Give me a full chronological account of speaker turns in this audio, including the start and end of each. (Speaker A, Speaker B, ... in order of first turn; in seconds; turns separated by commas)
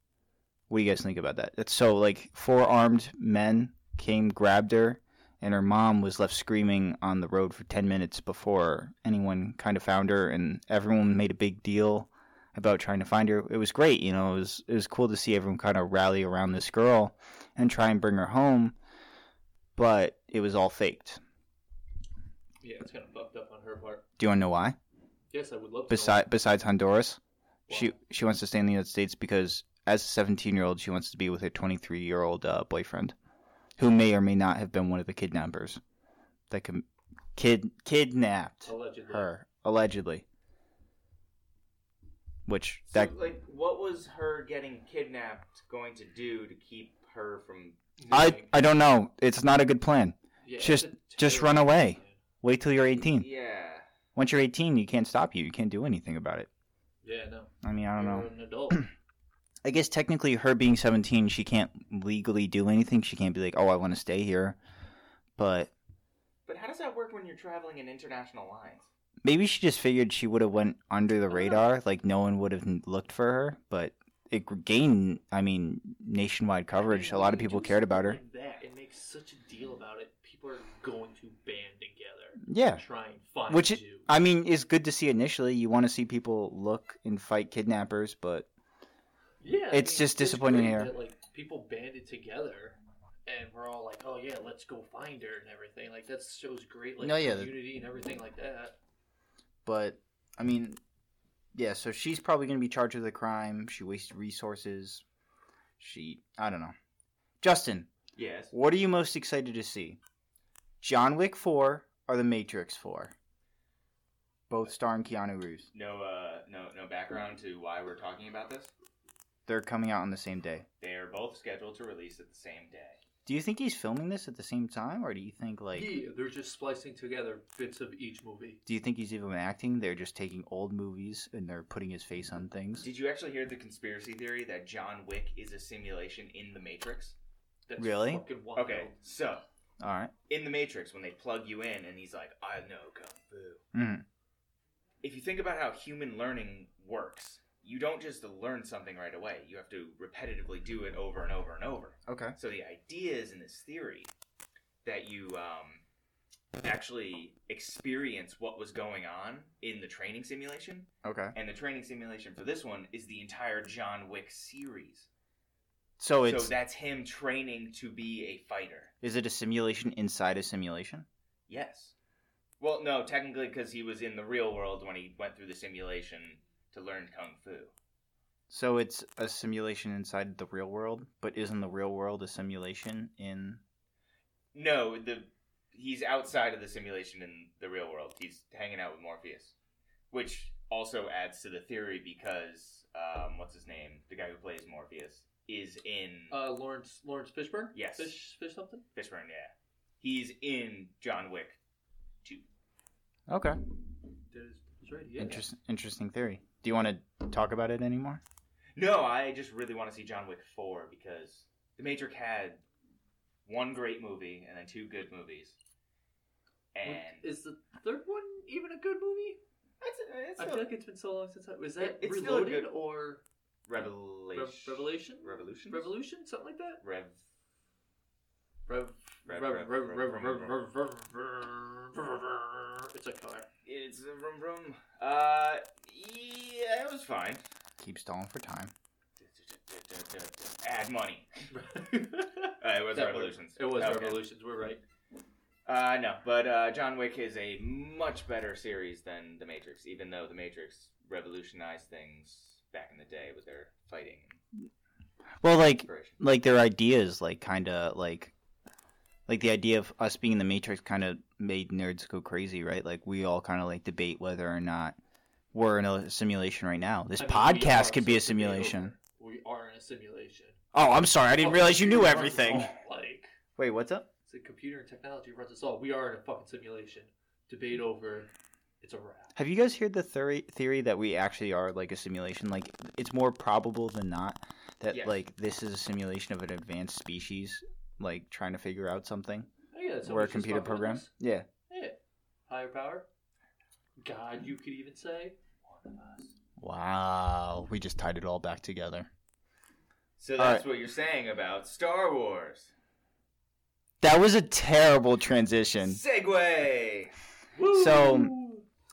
Speaker A: 0.7-18.8, Speaker A: 19.8-21.2, Speaker B: 22.6-24.0, Speaker A: 24.2-24.8, Speaker B: 25.3-26.2, Speaker A: 25.9-33.1, Speaker B: 27.7-27.9, Speaker A: 33.8-35.8, Speaker A: 36.5-40.2, Speaker B: 38.6-39.3, Speaker A: 42.5-43.1, Speaker C: 42.9-47.8, Speaker B: 48.0-48.5, Speaker A: 48.1-53.3, Speaker B: 50.4-52.2, Speaker C: 53.1-53.9, Speaker A: 54.1-56.5, Speaker B: 57.0-58.8, Speaker A: 57.6-58.9, Speaker A: 59.6-64.6, Speaker A: 65.4-65.7, Speaker C: 66.5-68.9, Speaker A: 69.2-78.2, Speaker B: 71.3-71.6, Speaker B: 76.7-84.1, Speaker A: 82.5-82.8, Speaker A: 83.5-88.5, Speaker B: 89.4-98.8, Speaker A: 89.7-90.9, Speaker A: 97.0-97.5, Speaker A: 99.7-100.8, Speaker A: 101.5-105.0, Speaker A: 105.8-106.7, Speaker A: 107.4-107.9, Speaker C: 108.2-108.5, Speaker A: 108.5-110.0, Speaker A: 110.8-113.2, Speaker A: 114.5-115.7, Speaker C: 115.7-118.7, Speaker A: 119.5-120.7, Speaker C: 120.8-123.0, Speaker A: 123.3-125.9, Speaker B: 125.7-128.6, Speaker A: 128.7-132.9, Speaker C: 132.8-137.2, Speaker B: 137.7-139.0, Speaker A: 137.8-138.2, Speaker C: 138.5-139.4, Speaker A: 139.8-140.1, Speaker C: 140.3-143.6, Speaker A: 143.7-144.1, Speaker C: 145.0-154.1, Speaker A: 152.1-152.4, Speaker C: 154.8-155.8, Speaker C: 156.6-165.1, Speaker A: 161.0-161.3, Speaker A: 166.0-166.5, Speaker C: 166.2-168.9, Speaker A: 169.0-171.1, Speaker C: 171.5-171.9, Speaker C: 172.6-177.7, Speaker A: 178.5-183.6, Speaker C: 184.5-189.5, Speaker C: 190.1-196.4, Speaker B: 196.3-198.8, Speaker C: 197.7-198.1, Speaker C: 198.9-201.6, Speaker A: 203.3-203.6, Speaker B: 204.3-205.5, Speaker A: 205.2-208.2, Speaker C: 208.8-212.6, Speaker C: 213.5-215.6, Speaker C: 216.7-217.3, Speaker B: 216.8-219.4, Speaker C: 219.8-220.7, Speaker B: 220.4-223.2, Speaker C: 221.8-222.7, Speaker C: 223.7-225.9, Speaker B: 224.3-226.8, Speaker C: 226.8-227.2, Speaker B: 228.7-233.5, Speaker C: 229.3-230.6, Speaker C: 233.7-237.4, Speaker A: 237.8-238.7, Speaker C: 239.2-241.5, Speaker B: 241.5-244.8, Speaker C: 242.6-244.2, Speaker C: 245.7-254.4, Speaker A: 255.4-258.3, Speaker C: 255.8-256.2, Speaker A: 259.3-265.0, Speaker A: 265.5-268.9, Speaker B: 267.2-270.6, Speaker A: 270.7-272.7, Speaker B: 271.4-273.3, Speaker A: 273.6-274.1, Speaker B: 274.3-279.4, Speaker A: 279.4-289.5, Speaker C: 284.9-285.2, Speaker B: 289.7-291.1, Speaker A: 290.0-291.5, Speaker B: 291.7-293.1, Speaker B: 294.0-296.3, Speaker A: 296.6-299.1, Speaker C: 300.2-302.7, Speaker A: 300.4-300.6, Speaker A: 304.0-306.0, Speaker C: 305.8-307.1, Speaker B: 307.6-308.6, Speaker A: 307.7-308.4